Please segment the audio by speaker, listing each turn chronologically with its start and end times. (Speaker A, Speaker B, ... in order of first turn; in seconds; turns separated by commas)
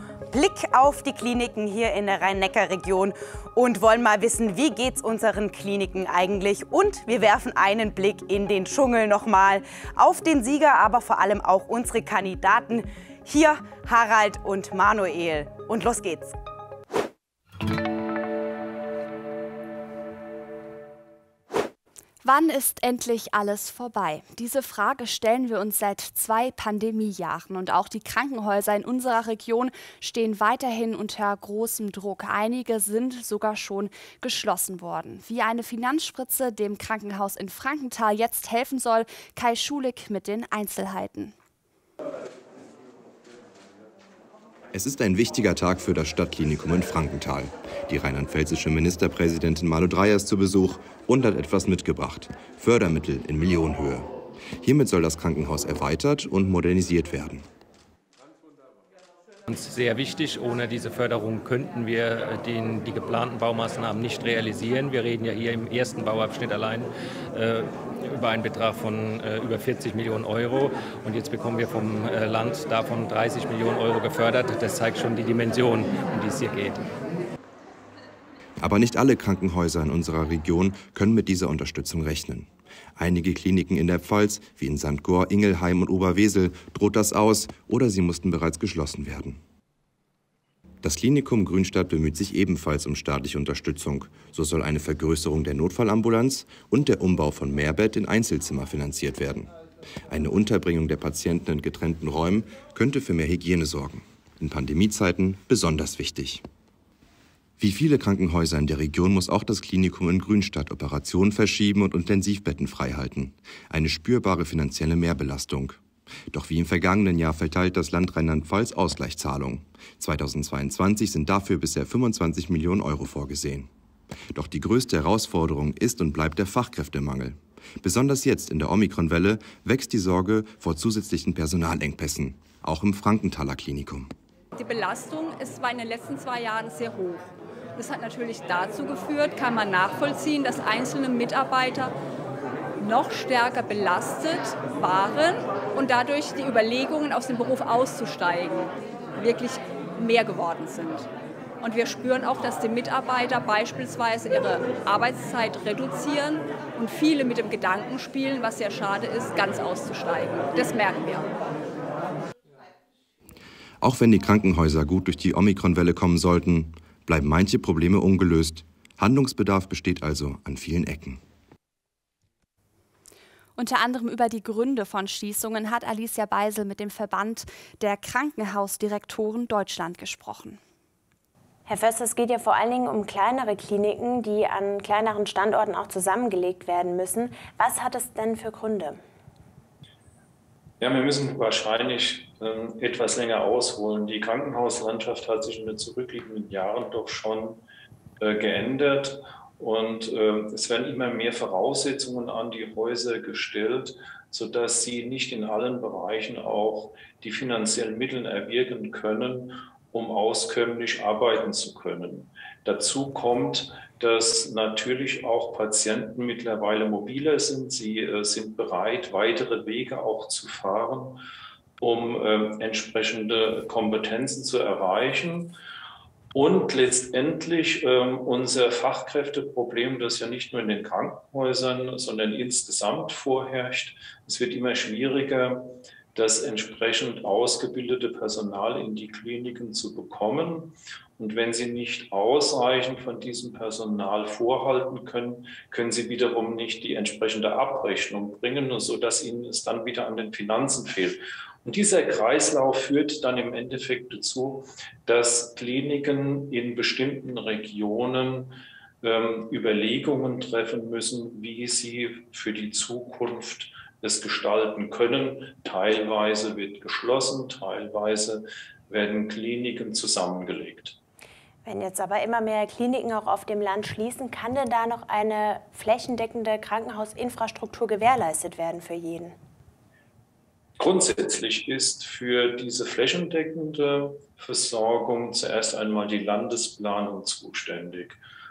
Speaker A: 0.3-16.3, Speaker B: 22.2-41.3, Speaker C: 44.7-54.1, Speaker C: 54.6-57.5, Speaker D: 59.5-76.9, Speaker C: 78.6-89.4, Speaker C: 90.8-99.5, Speaker C: 100.1-106.4, Speaker C: 107.6-123.7, Speaker C: 124.3-134.1, Speaker E: 134.6-137.2, Speaker E: 137.8-141.9, Speaker E: 142.8-151.1, Speaker E: 151.6-161.3, Speaker C: 163.8-171.2, Speaker B: 173.6-180.6, Speaker F: 181.7-189.0, Speaker G: 190.8-197.6, Speaker G: 198.2-221.2, Speaker G: 221.8-225.5, Speaker G: 226.3-271.0, Speaker F: 271.6-279.3, Speaker G: 280.8-288.2